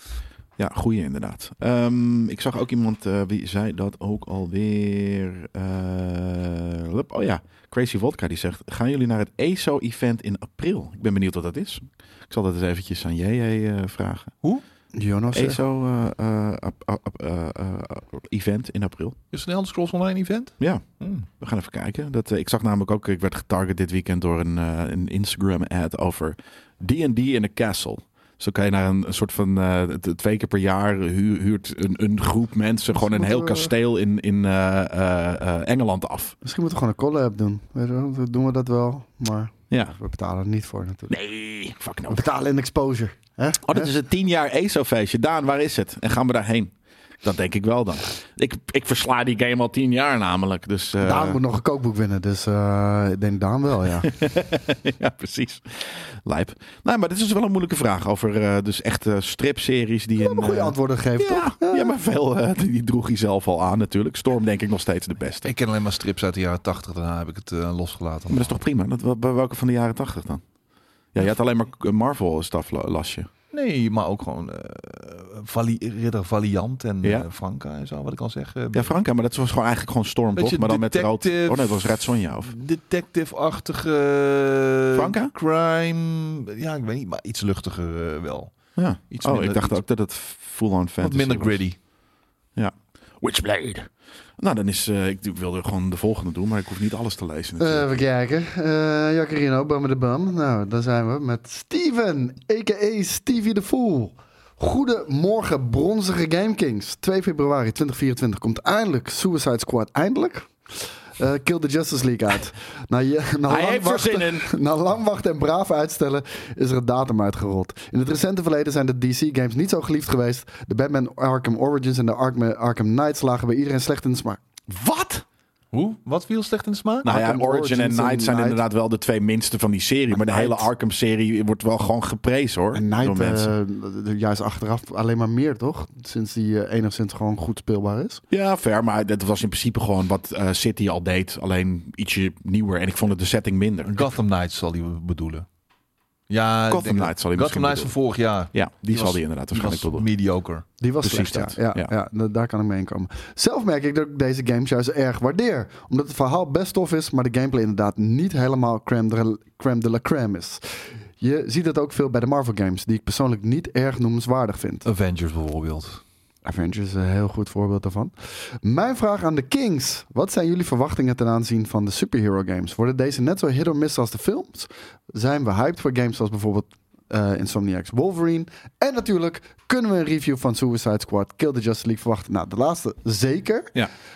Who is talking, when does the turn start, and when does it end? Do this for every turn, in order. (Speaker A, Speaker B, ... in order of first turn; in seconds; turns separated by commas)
Speaker A: 0.6-14.4, Speaker B: 14.9-15.6, Speaker A: 15.3-19.2, Speaker C: 19.3-21.3, Speaker A: 20.6-36.4, Speaker B: 33.0-33.7, Speaker B: 36.4-41.1, Speaker A: 41.1-42.2, Speaker B: 42.1-43.9, Speaker A: 43.6-46.7, Speaker A: 47.2-51.4, Speaker B: 51.0-54.1, Speaker A: 54.0-65.5, Speaker B: 60.2-61.9, Speaker C: 65.5-68.6, Speaker A: 68.3-70.4, Speaker A: 71.1-73.3, Speaker C: 73.5-79.0, Speaker A: 78.7-82.5, Speaker C: 80.3-88.5, Speaker A: 84.9-85.3, Speaker A: 88.8-91.6, Speaker C: 89.1-89.8, Speaker C: 91.0-91.8, Speaker A: 92.6-98.0, Speaker B: 97.6-124.4, Speaker A: 113.5-114.5, Speaker A: 124.7-125.2, Speaker C: 125.7-127.1, Speaker A: 127.0-133.5, Speaker B: 127.1-128.6, Speaker B: 130.1-130.7, Speaker B: 132.7-138.2, Speaker A: 138.3-144.1, Speaker C: 143.9-145.5, Speaker C: 146.3-150.7, Speaker A: 146.7-148.0, Speaker A: 148.5-150.1, Speaker B: 150.8-164.9, Speaker A: 151.0-151.9, Speaker C: 164.8-166.0, Speaker B: 166.4-183.8